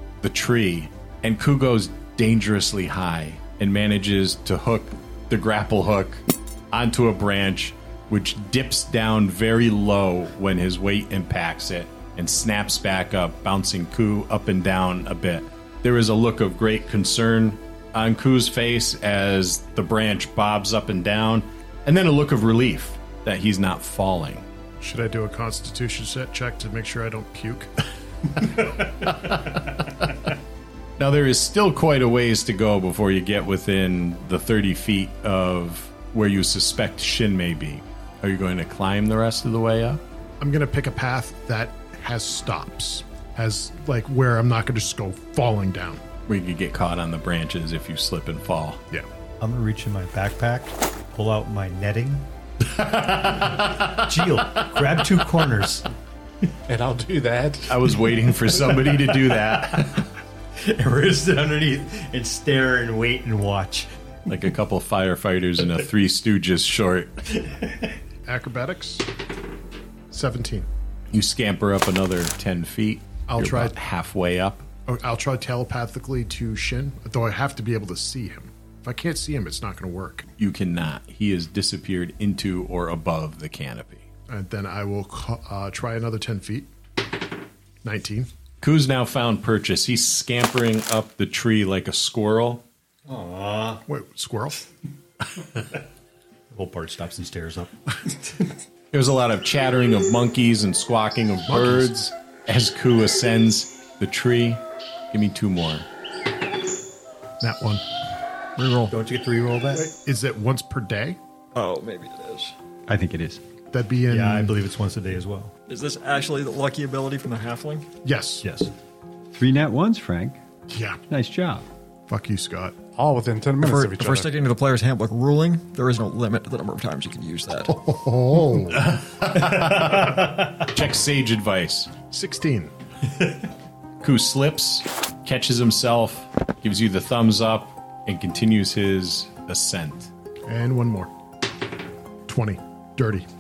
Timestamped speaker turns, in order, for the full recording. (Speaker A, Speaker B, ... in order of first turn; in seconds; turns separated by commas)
Speaker A: 0.2-24.4, Speaker B: 24.8-27.7, Speaker B: 28.4-29.6, Speaker A: 31.0-40.0, Speaker B: 40.4-46.0, Speaker A: 46.3-48.8, Speaker C: 49.4-55.9, Speaker D: 56.7-57.8, Speaker A: 57.7-60.0, Speaker C: 58.8-60.0, Speaker C: 60.6-63.9, Speaker A: 64.3-67.1, Speaker C: 67.4-67.9, Speaker B: 68.2-69.1, Speaker B: 70.1-70.7, Speaker A: 71.1-74.7, Speaker B: 73.3-73.8, Speaker B: 74.9-80.3, Speaker A: 80.4-84.0, Speaker B: 84.3-86.7, Speaker B: 87.8-88.3, Speaker A: 88.6-92.6, Speaker C: 93.1-93.8, Speaker B: 93.9-94.6, Speaker C: 96.5-98.3, Speaker A: 98.9-105.9, Speaker B: 101.5-101.9, Speaker B: 107.4-107.8, Speaker E: 108.6-108.9, Speaker C: 108.9-109.9, Speaker B: 109.8-111.2, Speaker E: 111.5-112.5, Speaker F: 112.9-113.4, Speaker B: 113.7-114.5, Speaker C: 114.1-115.5, Speaker E: 115.7-117.9, Speaker B: 118.0-118.5, Speaker C: 118.4-118.7, Speaker F: 119.3-120.4, Speaker B: 120.7-121.0, Speaker F: 121.1-121.7, Speaker B: 122.1-122.8, Speaker D: 123.0-124.3, Speaker E: 123.6-127.8, Speaker B: 127.7-128.9, Speaker A: 130.7-131.9, Speaker B: 132.1-132.7, Speaker A: 134.0-140.1, Speaker B: 140.5-141.1, Speaker B: 142.3-143.3